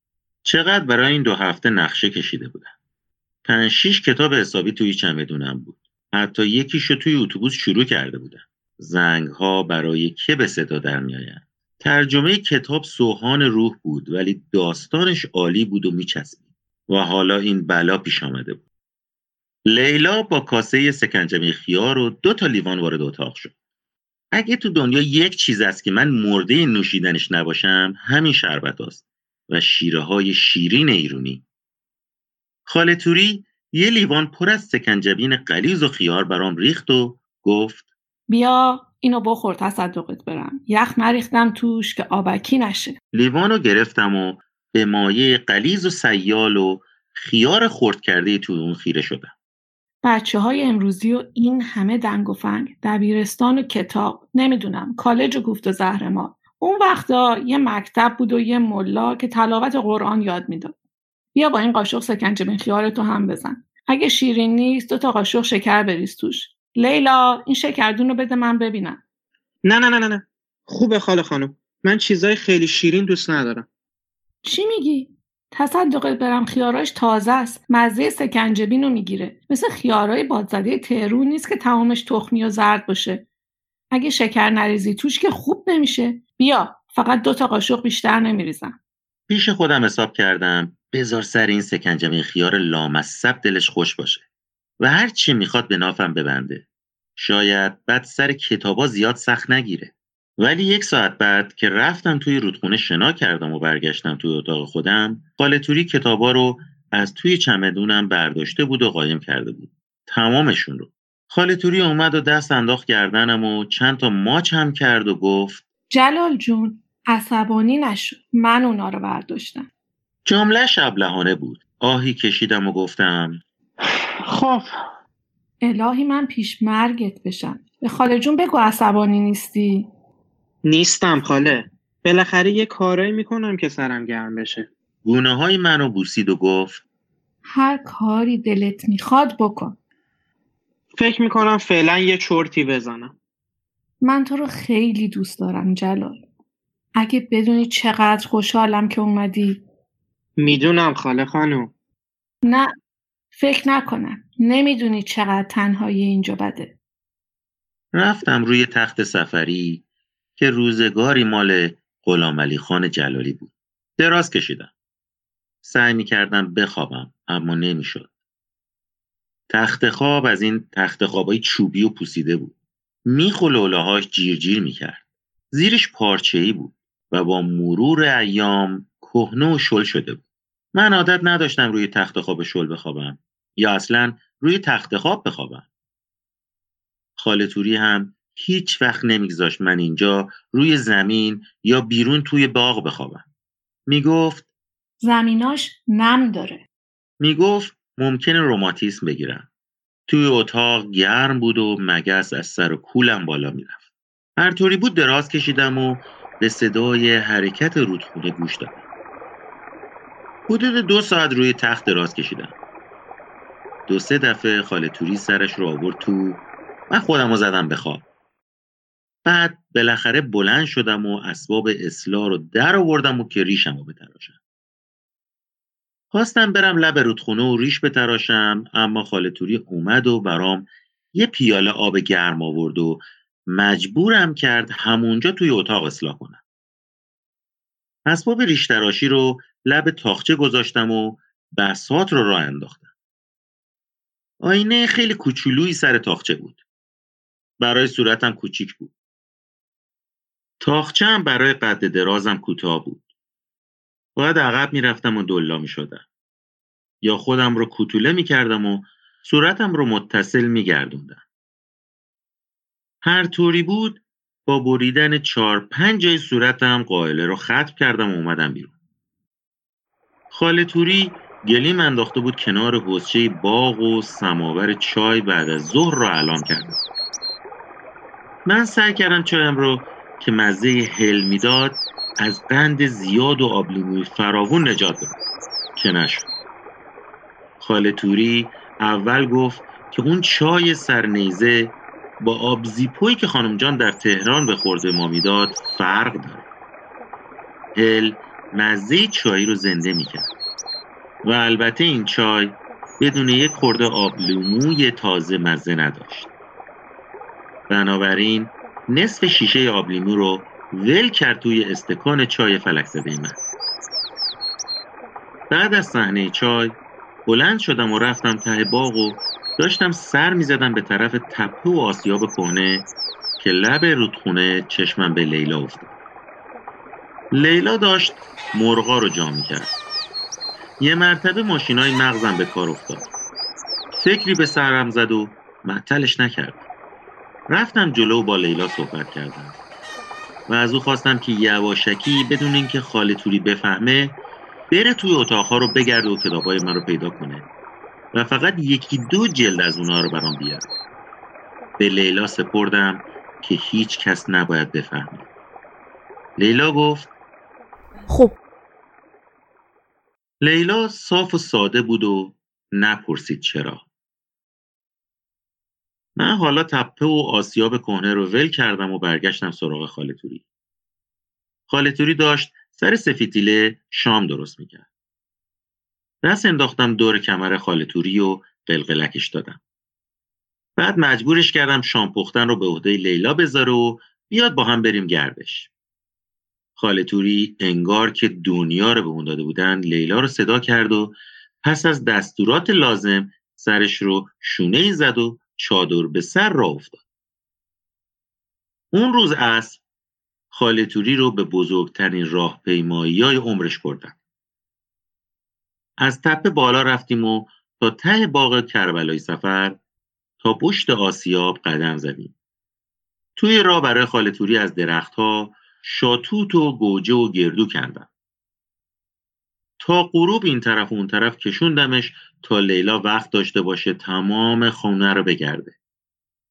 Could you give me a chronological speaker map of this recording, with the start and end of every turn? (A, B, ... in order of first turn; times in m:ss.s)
0:00.4-0:02.7 A
0:03.4-0:18.6 A
0:19.6-0:23.5 A
0:24.3-0:31.4 A
0:32.6-0:37.8 A
0:38.3-0:43.0 B
0:43.1-0:49.3 A
0:50.0-1:00.8 B
1:01.3-1:09.0 B
1:09.6-1:13.6 C
1:14.4-1:23.2 B
1:23.9-1:28.8 B
1:29.3-1:34.2 A
1:34.8-1:36.6 A
1:37.2-1:55.6 A
1:55.9-1:59.7 B
2:00.2-2:03.4 A
2:03.8-2:04.7 C
2:05.6-2:09.9 B
2:10.6-2:14.7 C
2:15.0-2:16.8 A
2:17.5-2:19.8 B
2:21.0-2:23.1 C
2:24.0-2:26.2 B
2:27.0-2:29.6 B
2:30.4-2:31.7 C
2:33.3-2:36.7 B
2:37.9-2:39.8 A
2:40.4-2:44.7 A
2:45.6-2:48.1 A
2:49.5-2:52.5 A
2:53.0-2:55.0 A
2:55.5-3:00.2 A
3:00.7-3:05.6 A
3:07.2-3:13.2 A
3:13.9-3:14.5 A
3:15.0-3:16.6 B
3:17.2-3:19.5 A
3:20.1-3:23.8 A
3:24.4-3:28.8 A
3:30.5-3:32.5 A
3:33.9-3:38.0 A
3:39.2-3:44.4 A
3:46.1-3:56.4 A
3:58.0-4:02.9 A
4:04.4-4:06.6 A
4:07.6-4:08.9 A
4:10.6-4:13.0 A
4:14.2-4:16.0 A
4:17.0-4:21.2 A
4:23.0-4:28.7 A
4:30.3-4:36.8 A
4:38.4-4:45.2 A
4:45.8-4:46.3 A
4:47.6-4:56.4 A
4:57.7-5:00.3 A
5:01.2-5:06.3 A
5:07.7-5:13.4 A
5:15.5-5:22.9 A
5:23.4-5:25.9 A
5:27.3-5:29.7 A
5:30.8-5:33.1 A
5:33.9-5:36.6 A
5:37.5-5:39.6 A
5:40.5-5:44.2 A
5:44.7-5:47.4 A
5:48.1-5:50.7 A
5:51.8-5:55.2 A
5:56.4-5:57.1 A
6:00.4-6:03.8 A
6:06.2-6:10.4 A
6:11.7-6:14.8 A
6:16.2-6:19.6 A
6:20.8-6:25.7 A
6:26.8-6:37.0 A
6:38.9-6:39.8 A
6:40.5-6:44.1 A
6:46.0-6:49.8 A
6:50.4-6:52.3 A
6:53.4-6:58.1 A
6:59.8-7:05.7 A